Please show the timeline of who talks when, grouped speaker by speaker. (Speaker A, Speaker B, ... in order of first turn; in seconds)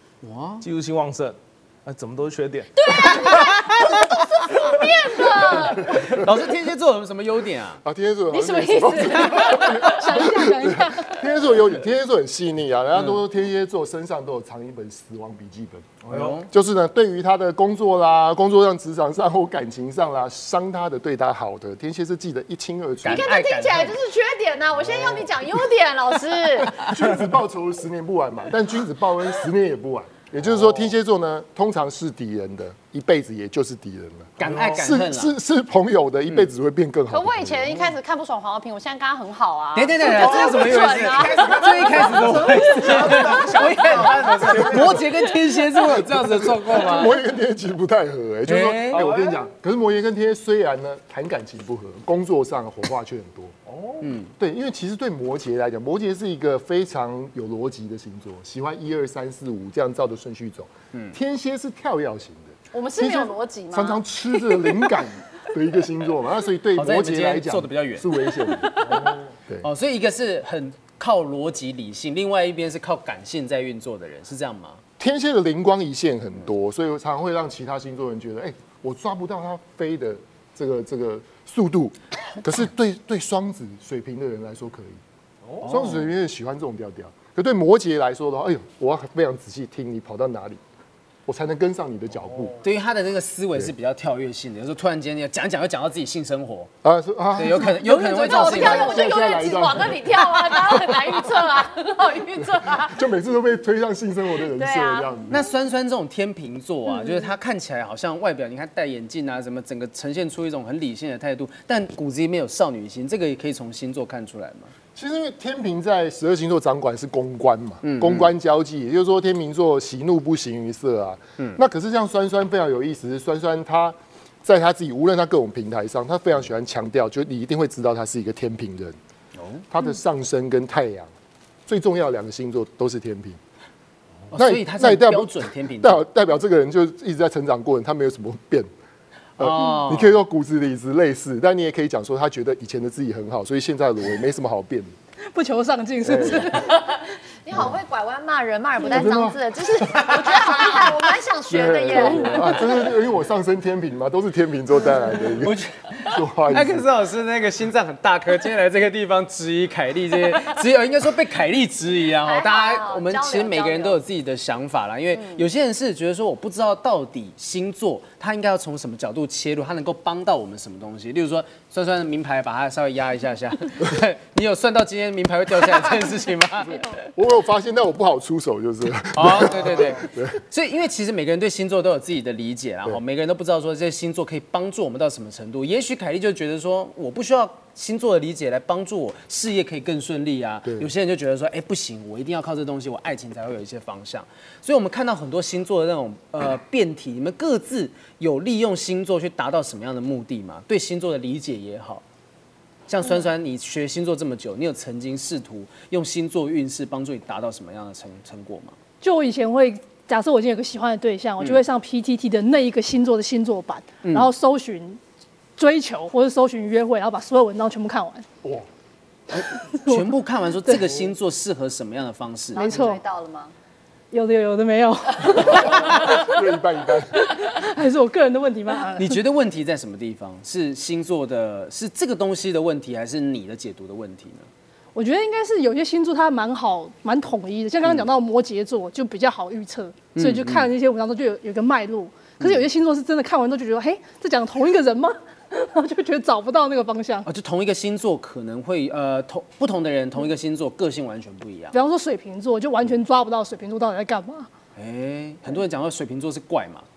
Speaker A: 0.2-0.6, 5.8-7.8, 16.1-16.5, 23.0-23.9, 34.4-35.4, 39.7-47.2, 48.5-49.1, 54.0-54.3, 66.7-69.0, 69.6-74.8, 85.6-86.1, 92.6-96.7, 97.3-99.0, 105.3-114.7, 117.8-118.3, 129.4-129.6, 134.3-136.0, 139.4-140.2, 155.4-177.0, 179.1-202.0, 202.9-208.8, 214.0-214.3, 219.3-222.7, 228.9-234.5, 240.1-240.7, 247.2-251.7, 254.8-256.9
Speaker B: 0.6-4.8, 16.1-16.4, 34.4-34.8, 40.0-45.1, 48.9-49.4, 53.7-54.0
Speaker C: 2.8-6.0, 8.3-11.2, 23.0-26.8, 37.1-43.5, 62.7-64.9, 97.7-103.0, 104.5-105.2, 146.5-152.7, 162.2-164.0, 222.6-223.5
Speaker D: 7.8-16.0, 16.5-23.3, 26.7-37.8, 46.4-53.5, 54.4-69.6, 75.0-85.0, 85.6-90.6, 91.2-92.5, 96.8-101.0, 102.8-105.4, 114.9-128.9, 129.7-131.1, 131.7-133.4, 134.3-138.7, 139.4-144.9, 146.0-146.6, 148.8-151.0, 151.5-156.9, 177.0-180.4, 225.3-227.3
Speaker E: 145.3-146.8, 209.0-215.0, 215.6-218.2, 219.3-220.1, 220.7-221.0, 222.5-223.0, 224.1-226.4, 227.1-229.2, 234.9-247.2, 251.7-254.5